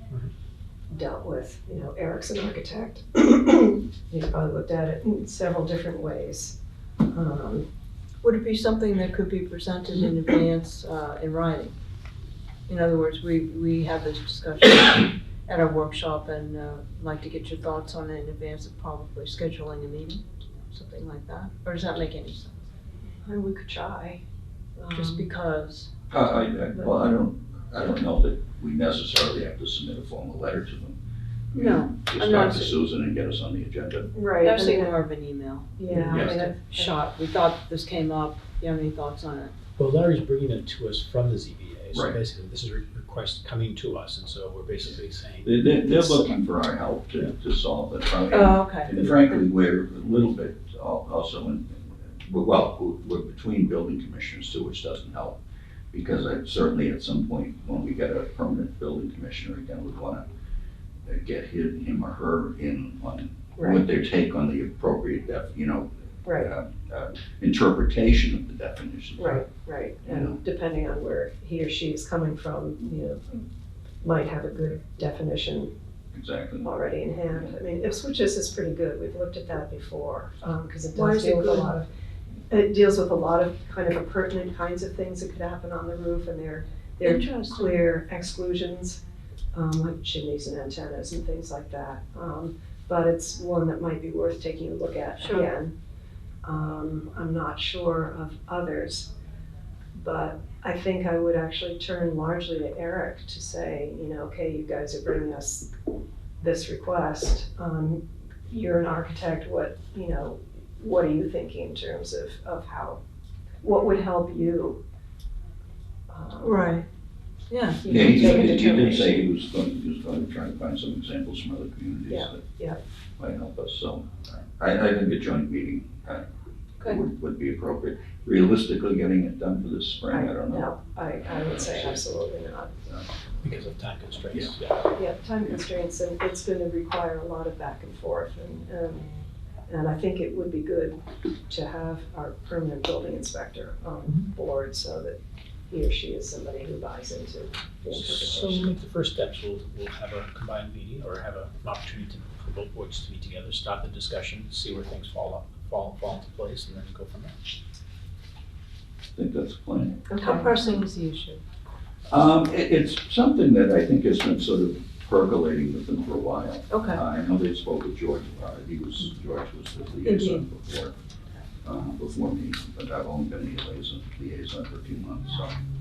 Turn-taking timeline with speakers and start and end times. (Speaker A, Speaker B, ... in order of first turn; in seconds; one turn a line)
Speaker A: 0.9-6.5
Speaker A: 7.1-7.7
Speaker B: 8.2-11.8
Speaker B: 12.7-22.6
Speaker A: 23.2-24.2
Speaker A: 24.8-25.2
Speaker B: 24.9-25.9
Speaker C: 26.1-31.0
Speaker B: 31.5-32.8
Speaker C: 31.5-34.1
Speaker A: 34.1-35.0
Speaker B: 34.4-39.5
Speaker A: 35.8-37.0
Speaker C: 35.9-36.3
Speaker D: 39.8-45.8
Speaker C: 44.8-55.4
Speaker B: 48.3-48.9
Speaker C: 55.9-60.2
Speaker C: 61.1-69.4
Speaker A: 63.6-63.8
Speaker A: 66.2-66.5
Speaker A: 69.2-73.4
Speaker C: 70.0-70.4
Speaker A: 74.0-75.7
Speaker C: 76.1-76.7
Speaker A: 76.6-81.9
Speaker B: 81.0-81.7
Speaker A: 82.5-89.0
Speaker B: 87.0-87.8
Speaker A: 89.5-95.8
Speaker A: 96.4-99.1
Speaker A: 100.0-105.7
Speaker A: 106.4-113.0
Speaker A: 113.6-114.8
Speaker A: 116.1-116.7
Speaker B: 116.4-116.9
Speaker B: 117.5-118.9
Speaker A: 117.8-119.2
Speaker C: 117.9-122.4
Speaker A: 122.1-122.8
Speaker C: 123.2-126.2
Speaker C: 126.8-130.7
Speaker A: 130.1-132.7
Speaker C: 131.2-132.0
Speaker D: 133.4-134.9
Speaker A: 135.0-139.1
Speaker A: 139.7-141.0
Speaker A: 141.5-145.2
Speaker A: 145.7-148.7
Speaker D: 147.9-157.4
Speaker C: 159.2-160.7
Speaker A: 160.1-160.5
Speaker B: 160.2-161.4
Speaker C: 162.1-170.9
Speaker B: 166.7-167.0
Speaker B: 170.0-170.4
Speaker C: 171.6-175.6